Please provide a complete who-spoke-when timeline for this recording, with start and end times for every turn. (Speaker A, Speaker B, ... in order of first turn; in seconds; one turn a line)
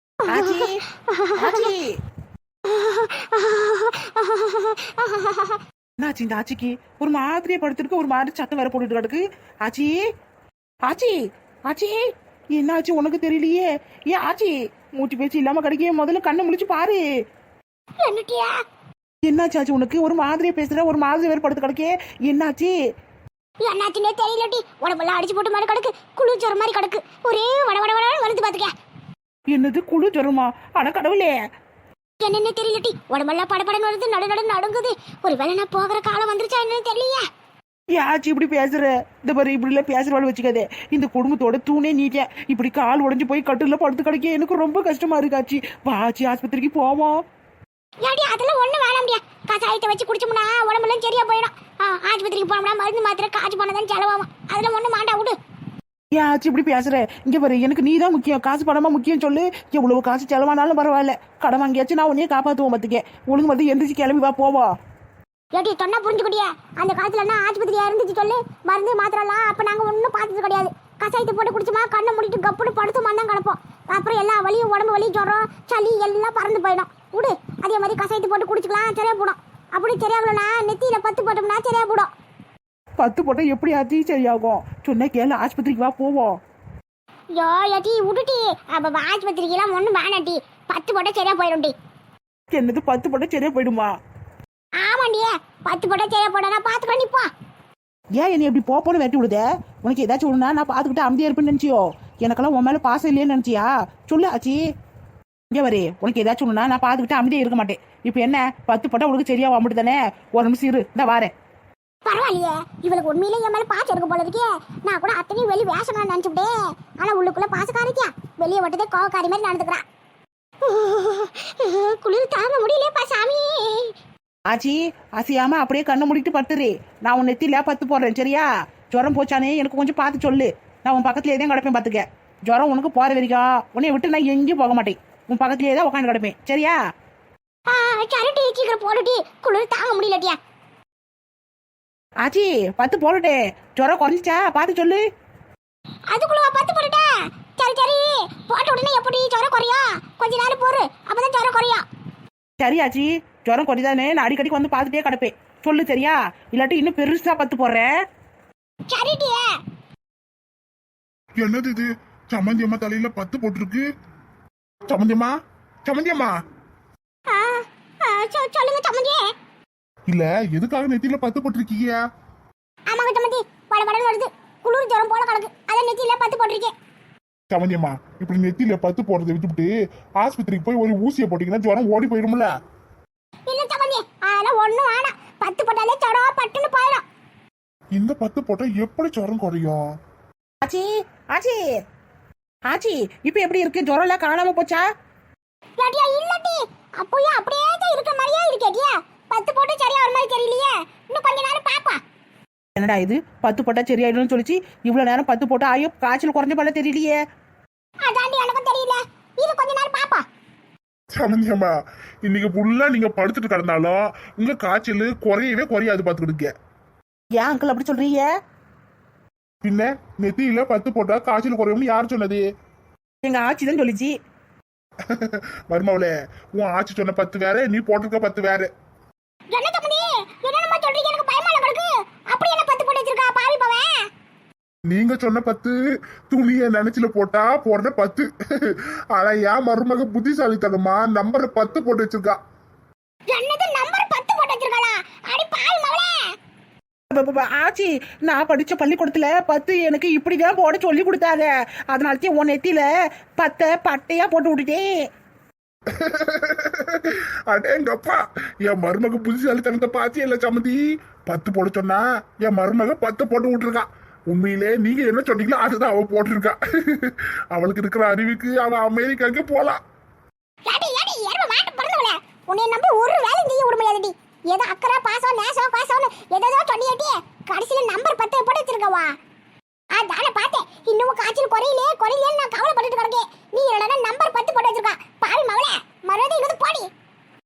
Speaker A: 0.2-1.7
Speaker B: 0.3-0.8
Speaker B: 1.3-1.9
Speaker A: 2.7-5.6
Speaker B: 6.0-9.9
Speaker B: 10.9-11.2
Speaker B: 11.7-12.0
Speaker B: 12.5-17.0
Speaker A: 18.0-18.6
Speaker B: 19.2-22.7
Speaker A: 23.6-28.7
Speaker B: 29.5-31.3
Speaker A: 32.2-37.2
Speaker B: 37.9-47.1
Speaker A: 48.0-55.4
Speaker B: 56.1-64.7
Speaker A: 65.5-82.1
Speaker B: 83.0-86.3
Speaker A: 87.3-91.7
Speaker B: 92.5-93.9
Speaker A: 94.8-97.3
Speaker B: 98.2-104.6
Speaker B: 105.5-111.3
Speaker A: 112.0-119.8
Speaker A: 120.6-123.9
Speaker B: 124.5-136.8
Speaker A: 137.7-140.4
Speaker B: 142.2-145.0
Speaker A: 146.1-151.8
Speaker B: 152.6-157.9
Speaker A: 158.9-159.6
Speaker C: 161.4-163.9
Speaker C: 164.9-165.3
Speaker C: 165.8-166.3
Speaker A: 167.3-169.3
Speaker C: 170.1-172.0
Speaker A: 172.9-176.7
Speaker C: 177.5-182.5
Speaker A: 183.5-187.0
Speaker C: 187.9-189.8
Speaker B: 190.6-191.6
Speaker B: 192.7-194.8
Speaker A: 195.8-202.0
Speaker B: 202.8-207.2
Speaker A: 208.0-210.2
Speaker C: 211.1-211.7
Speaker C: 212.2-216.5
Speaker B: 217.4-218.3
Speaker C: 219.6-222.4
Speaker B: 223.2-224.1
Speaker C: 225.1-228.7
Speaker A: 229.5-233.9
Speaker C: 234.9-235.8
Speaker C: 236.3-242.4
Speaker A: 243.3-246.2
Speaker B: 247.1-252.9
Speaker B: 253.4-254.9
Speaker C: 255.9-269.8
Speaker A: 270.7-279.1
Speaker A: 279.9-286.9